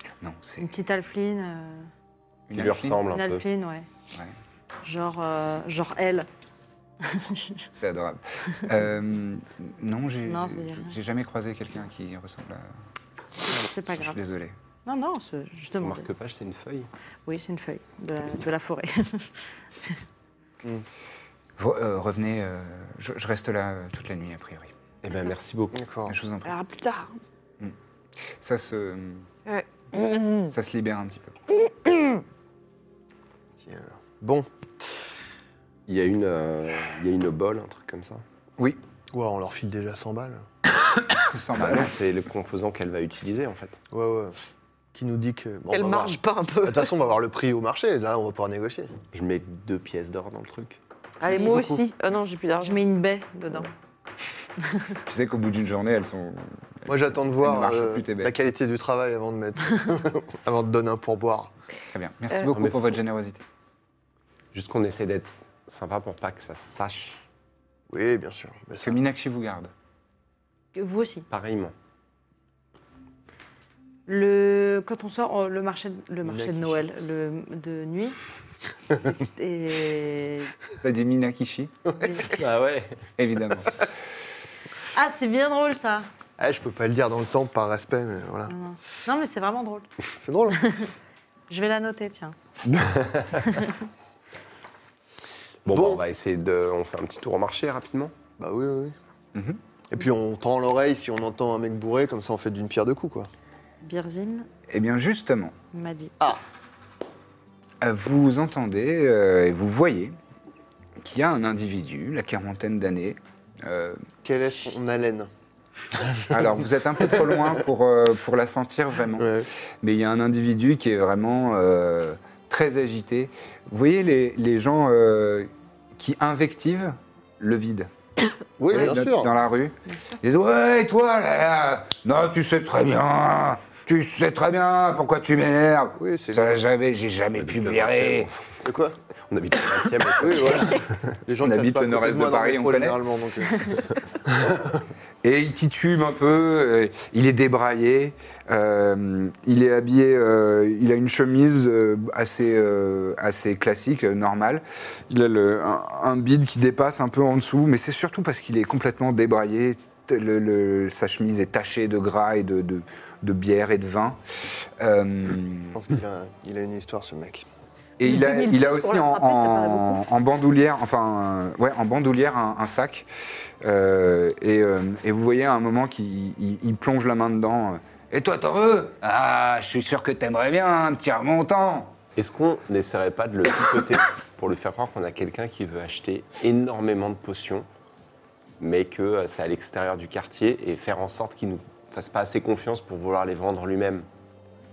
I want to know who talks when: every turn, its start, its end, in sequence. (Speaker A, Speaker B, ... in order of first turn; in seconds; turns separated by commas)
Speaker A: 0.2-0.7, Speaker B: 0.6-1.9, Speaker A: 2.5-3.0, Speaker C: 2.5-3.4, Speaker B: 3.0-3.9, Speaker B: 4.8-6.3, Speaker B: 7.0-7.7, Speaker A: 7.8-12.7, Speaker B: 10.2-10.9, Speaker B: 13.4-14.2, Speaker A: 13.9-14.5, Speaker B: 14.8-16.1, Speaker C: 15.8-16.9, Speaker B: 17.2-20.0, Speaker A: 21.6-24.7, Speaker C: 25.0-25.8, Speaker D: 25.7-26.1, Speaker A: 26.1-26.5, Speaker E: 26.4-27.1, Speaker A: 28.4-29.3, Speaker E: 29.4-30.5, Speaker A: 30.5-31.4, Speaker D: 33.6-35.0, Speaker C: 35.9-38.2, Speaker D: 39.1-40.5, Speaker A: 41.0-41.9, Speaker C: 41.6-43.8, Speaker D: 43.9-44.4, Speaker D: 44.9-48.9, Speaker E: 45.7-46.9, Speaker C: 49.1-50.8, Speaker E: 51.2-52.8, Speaker D: 51.2-51.9, Speaker B: 52.6-53.7, Speaker A: 55.1-58.4, Speaker D: 56.9-61.5, Speaker A: 61.9-63.4, Speaker C: 62.5-62.9, Speaker C: 64.5-67.2, Speaker D: 67.9-69.0, Speaker A: 68.8-69.7, Speaker B: 70.7-71.3, Speaker C: 71.3-71.7, Speaker B: 74.1-78.2, Speaker D: 76.2-76.8, Speaker B: 79.0-80.5, Speaker A: 80.8-81.7, Speaker B: 82.0-82.3, Speaker C: 82.3-83.0, Speaker A: 83.2-83.8, Speaker B: 84.9-86.1, Speaker D: 86.4-88.5, Speaker B: 88.5-89.9, Speaker D: 90.2-90.6, Speaker B: 90.6-90.9, Speaker B: 91.5-92.3, Speaker C: 92.7-93.5, Speaker B: 93.4-93.7, Speaker C: 95.7-98.1, Speaker D: 95.7-96.0, Speaker D: 98.4-98.9, Speaker D: 99.9-103.3, Speaker B: 103.8-104.5, Speaker A: 104.7-105.5, Speaker B: 105.7-106.2, Speaker A: 107.8-110.2, Speaker A: 111.0-114.0, Speaker D: 114.2-115.3, Speaker D: 116.1-117.5, Speaker A: 116.3-127.9, Speaker D: 119.2-119.5, Speaker D: 128.6-129.3, Speaker A: 128.7-138.3, Speaker B: 129.8-130.2, Speaker D: 136.0-136.6, Speaker C: 137.4-138.4, Speaker D: 138.6-138.9, Speaker C: 139.3-141.1, Speaker D: 140.2-144.8, Speaker A: 141.4-143.0, Speaker A: 145.2-164.2, Speaker A: 164.8-165.8, Speaker D: 165.7-167.4, Speaker A: 168.0-173.1, Speaker E: 168.0-170.0, Speaker A: 173.6-181.9, Speaker C: 182.2-187.7, Speaker C: 188.6-194.1